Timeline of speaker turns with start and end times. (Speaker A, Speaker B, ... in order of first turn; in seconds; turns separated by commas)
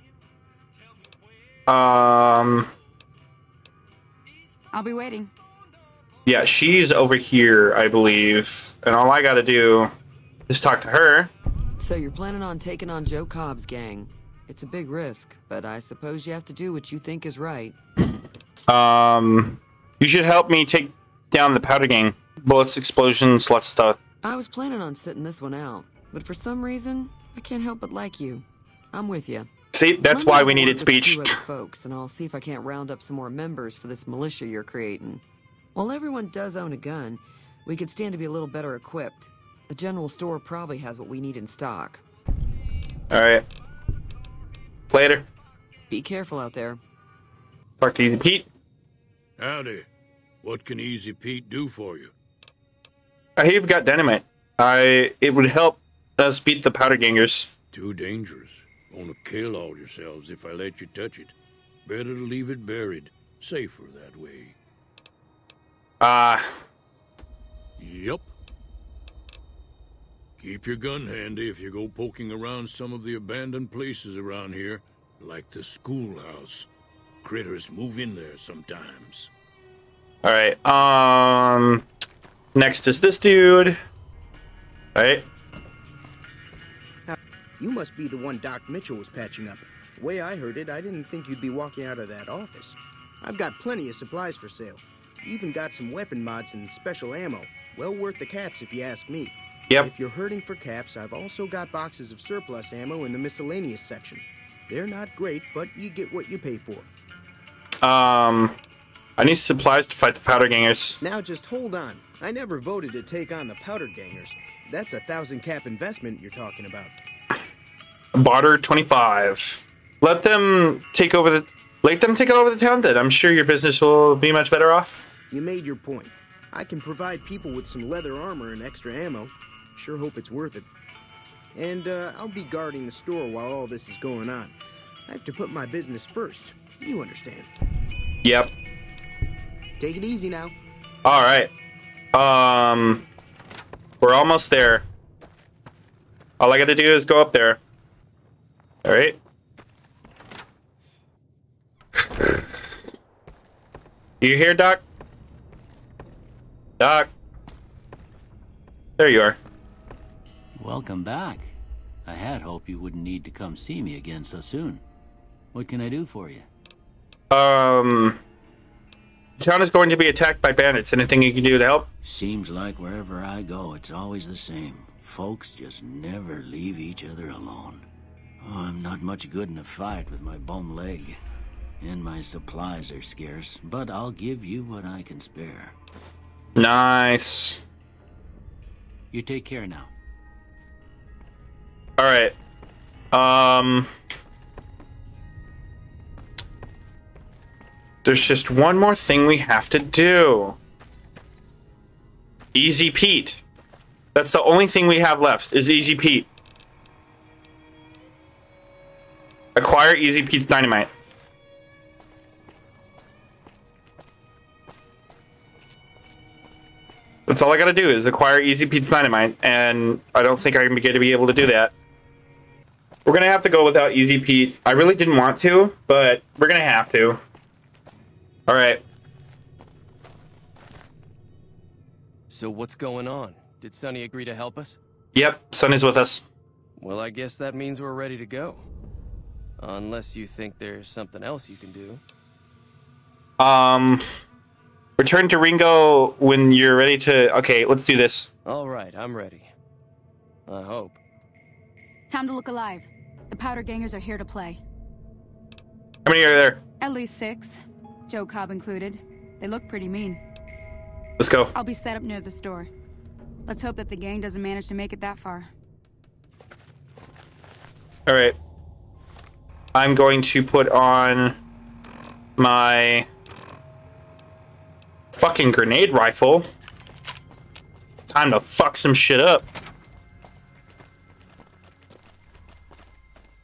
Speaker A: 1.7-2.7, Speaker B: 4.7-5.3, Speaker A: 6.2-9.9, Speaker A: 10.5-11.3, Speaker C: 11.8-17.7, Speaker A: 18.7-24.0, Speaker C: 24.2-29.5, Speaker A: 29.7-31.4, Speaker C: 30.0-35.2, Speaker C: 35.7-42.0, Speaker A: 43.1-43.4, Speaker A: 44.9-45.2, Speaker C: 45.9-46.8, Speaker A: 47.8-48.5, Speaker D: 49.4-49.9, Speaker D: 50.4-52.1, Speaker A: 53.4-57.5, Speaker D: 57.7-64.5, Speaker A: 66.0-66.5, Speaker D: 67.8-68.3, Speaker D: 70.4-76.7, Speaker D: 77.2-79.3, Speaker A: 80.2-81.8, Speaker A: 82.5-83.8, Speaker A: 84.9-85.2, Speaker E: 87.1-106.9, Speaker A: 107.8-108.5, Speaker A: 109.2-111.0, Speaker E: 111.0-116.9, Speaker A: 118.1-125.1, Speaker E: 125.3-130.7, Speaker E: 131.5-134.5, Speaker E: 135.1-137.5, Speaker A: 138.2-138.5, Speaker E: 139.8-140.5, Speaker A: 141.0-141.5, Speaker A: 142.1-143.0, Speaker A: 144.0-144.8, Speaker A: 146.4-147.6, Speaker A: 148.8-149.2, Speaker A: 154.2-154.8, Speaker A: 156.8-157.1, Speaker A: 159.0-159.4, Speaker F: 160.5-164.8, Speaker F: 165.5-166.5, Speaker A: 167.3-168.2, Speaker A: 169.4-171.8, Speaker F: 172.0-177.8, Speaker F: 178.4-181.2, Speaker F: 181.8-185.8, Speaker A: 186.6-187.6, Speaker F: 189.1-189.9, Speaker A: 192.0-192.3, Speaker A: 193.1-193.9, Speaker A: 198.0-200.6, Speaker A: 202.5-203.4, Speaker A: 204.1-206.3, Speaker A: 209.5-210.9, Speaker A: 217.3-221.7, Speaker A: 223.0-227.2, Speaker A: 228.5-228.8, Speaker G: 232.3-234.8, Speaker A: 235.1-236.2, Speaker G: 236.8-238.7, Speaker G: 239.6-242.0, Speaker A: 243.4-244.0, Speaker A: 245.0-248.3, Speaker G: 248.4-249.5, Speaker G: 250.5-251.0, Speaker B: 252.1-254.6, Speaker A: 256.0-256.6, Speaker B: 256.8-260.2, Speaker A: 261.2-261.5, Speaker B: 261.5-262.7, Speaker B: 263.5-265.5, Speaker A: 268.1-268.4, Speaker A: 269.7-271.4, Speaker A: 272.4-273.1, Speaker A: 275.1-276.5, Speaker A: 278.1-279.5